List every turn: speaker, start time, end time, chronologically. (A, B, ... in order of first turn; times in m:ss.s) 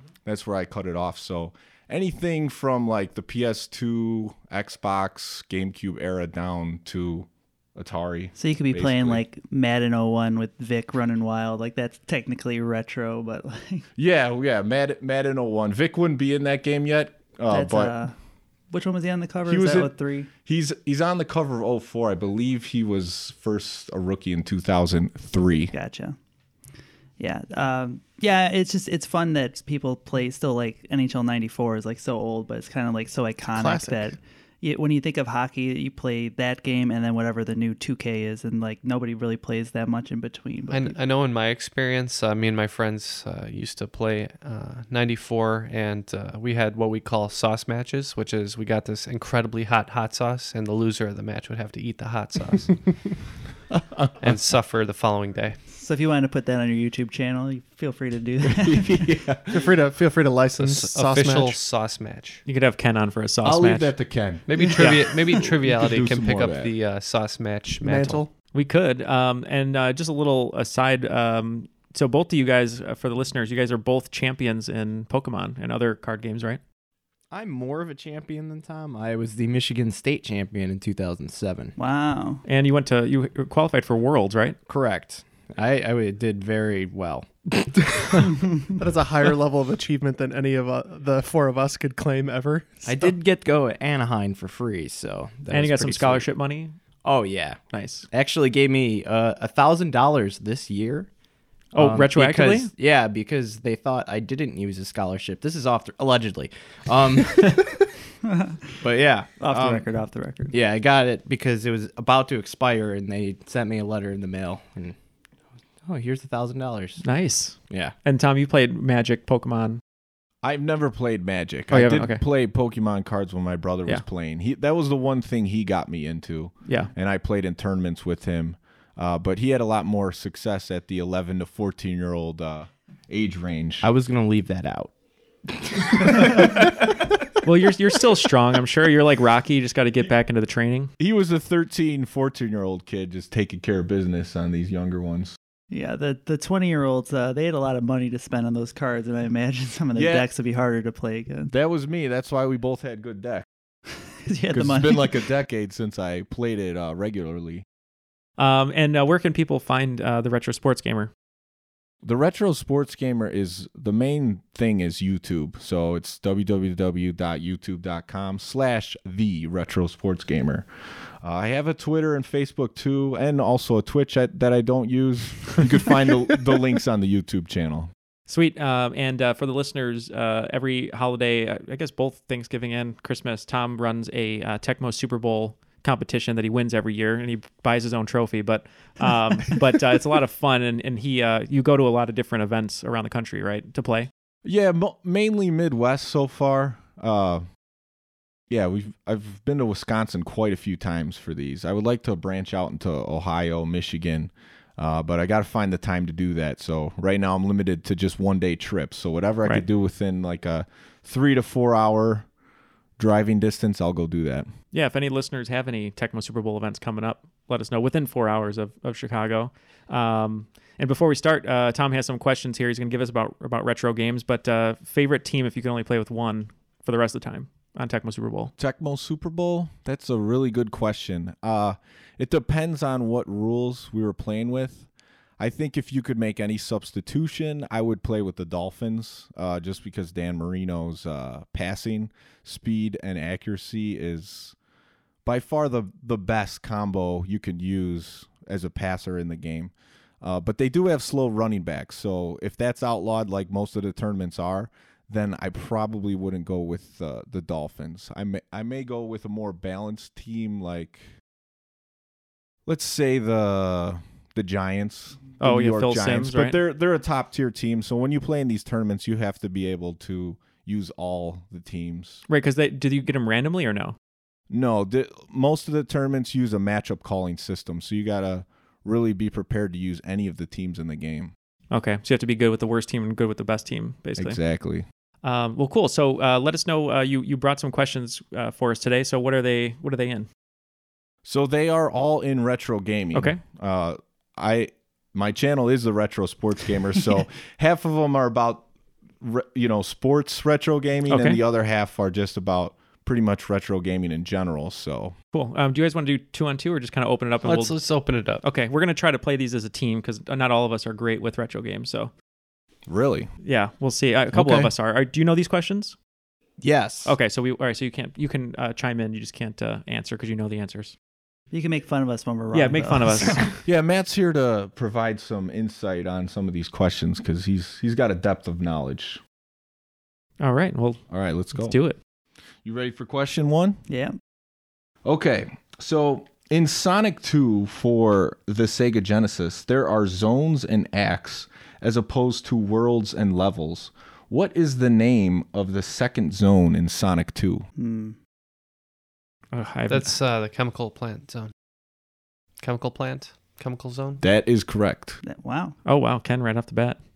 0:00.3-0:09.2 A
0:08.4-0:13.9 B
0:14.0-0:18.0 A
0:17.5-0:18.2 B
0:18.7-0:20.3 B
0:19.5-0:25.7 A
0:25.7-0:26.2 B
0:27.2-0:41.0 B
0:33.5-0:34.2 C
0:40.7-0:52.9 D
0:53.8-0:54.1 A
0:54.2-0:55.6 D
0:55.7-0:59.2 B
0:58.4-0:59.7 A
0:59.5-1:01.6 C
1:00.6-1:02.4 D
1:02.5-1:04.0 E
1:03.4-1:04.4 A
1:04.5-1:08.2 D
1:04.7-1:05.2 E
1:05.6-1:06.7 A
1:07.8-1:08.3 C
1:08.5-1:16.6 E
1:17.3-1:21.7 F
1:21.8-1:22.4 B
1:22.4-1:24.6 E
1:24.7-1:28.4 F
1:28.8-1:33.2 C
1:32.8-1:36.3 F
1:35.5-1:36.8 E
1:37.0-1:41.1 F
1:37.7-1:38.1 E
1:41.7-1:47.8 F
1:41.8-1:42.7 E
1:48.3-1:48.6 B
1:48.8-1:49.8 F
1:49.4-1:50.5 B
1:50.5-1:55.0 F
1:55.9-1:57.0 F
1:57.0-1:59.8 E
1:57.7-1:58.0 F
2:00.4-2:13.9 A
2:01.7-2:02.2 E
2:06.7-2:06.9 E
2:13.8-2:14.9 F
2:15.5-2:16.7 F
2:17.4-2:20.9 E
2:21.0-2:25.4 A
2:25.7-2:31.5 B
2:30.0-2:30.3 A
2:31.5-2:33.4 A
2:34.2-2:35.3 B
2:34.5-2:37.6 A
2:38.4-2:41.1 E
2:42.0-2:50.7 A
2:51.2-2:57.9 A
2:58.3-3:14.1 E
3:14.4-3:17.4 A
3:18.5-3:32.3 A
3:33.0-3:34.5 A
3:34.7-3:48.5 E
3:48.6-3:54.9 A
3:55.4-4:04.6 A
4:05.2-4:21.1 A
4:22.7-4:32.2 A
4:25.4-4:26.6 E
4:32.3-4:34.0 E
4:34.5-4:41.3 A
4:41.7-4:44.4 E
4:44.2-4:44.8 A
4:45.2-4:50.3 E
4:51.2-4:58.6 A
4:53.1-4:53.4 E
4:59.2-5:05.2 A
5:01.1-5:01.4 E
5:05.3-5:12.1 E
5:07.4-5:08.4 D
5:12.9-5:13.3 A
5:13.4-5:16.0 E
5:14.3-5:14.7 F
5:16.6-5:17.2 F
5:17.0-5:21.0 E
5:21.5-5:23.6 B
5:22.5-5:23.6 E
5:23.6-5:29.2 A
5:30.4-5:32.0 E
5:31.1-5:31.8 A
5:32.6-5:33.8 A
5:33.9-5:34.2 B
5:35.0-5:47.7 A
5:47.8-5:48.2 B
5:49.5-5:50.2 E
5:49.9-5:51.5 D
5:52.6-5:54.2 D
5:54.2-5:55.2 A
5:55.2-5:55.8 B
5:55.8-5:57.0 E